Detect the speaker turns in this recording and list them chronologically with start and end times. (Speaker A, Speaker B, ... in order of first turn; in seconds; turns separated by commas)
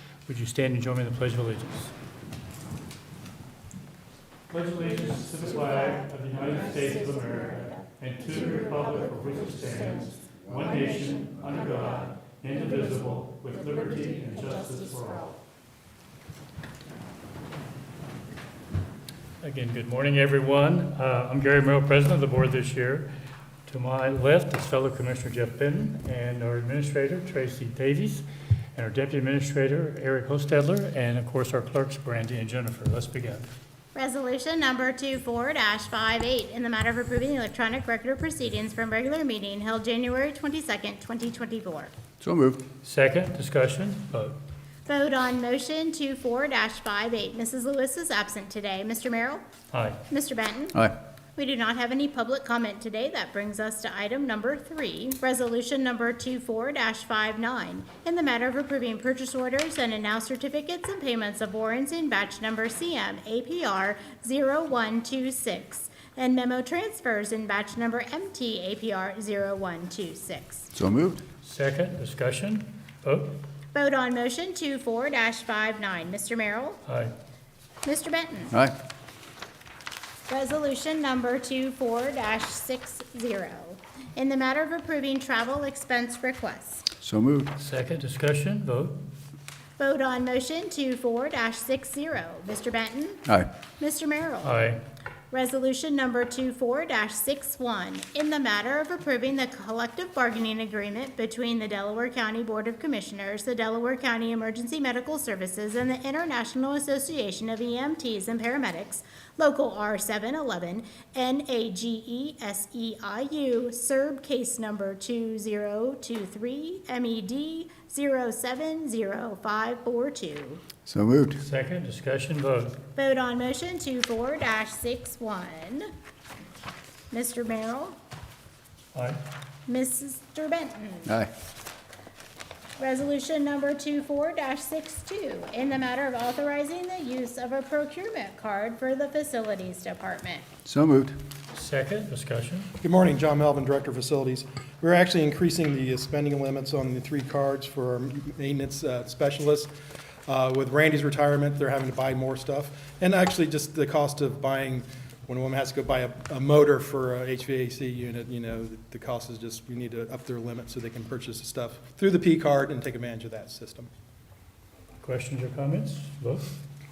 Speaker A: 0.2-1.9, Speaker A: 4.5-15.4, Speaker A: 19.4-23.1, Speaker A: 23.6-33.5, Speaker B: 33.9-41.9, Speaker C: 42.2-42.6, Speaker A: 42.8-44.4, Speaker B: 44.9-49.4, Speaker A: 49.7-50.0, Speaker B: 50.1-50.8, Speaker B: 51.4-70.7, Speaker C: 70.7-71.2, Speaker A: 71.4-73.4, Speaker B: 73.7-76.8, Speaker A: 76.8-77.1, Speaker B: 77.8-78.5, Speaker C: 78.5-78.8, Speaker B: 80.3-86.9, Speaker C: 87.0-87.5, Speaker A: 87.6-89.0, Speaker B: 89.8-94.6, Speaker A: 94.4-94.8, Speaker B: 95.3-120.6, Speaker C: 120.8-121.4, Speaker A: 121.4-122.8, Speaker B: 123.0-125.9, Speaker B: 127.1-128.0, Speaker A: 128.9-129.2, Speaker B: 129.7-131.1, Speaker C: 131.1-131.3, Speaker B: 132.8-140.4, Speaker C: 140.6-141.2, Speaker A: 141.5-142.7, Speaker D: 142.8-149.7, Speaker D: 150.3-163.9, Speaker A: 165.0-166.5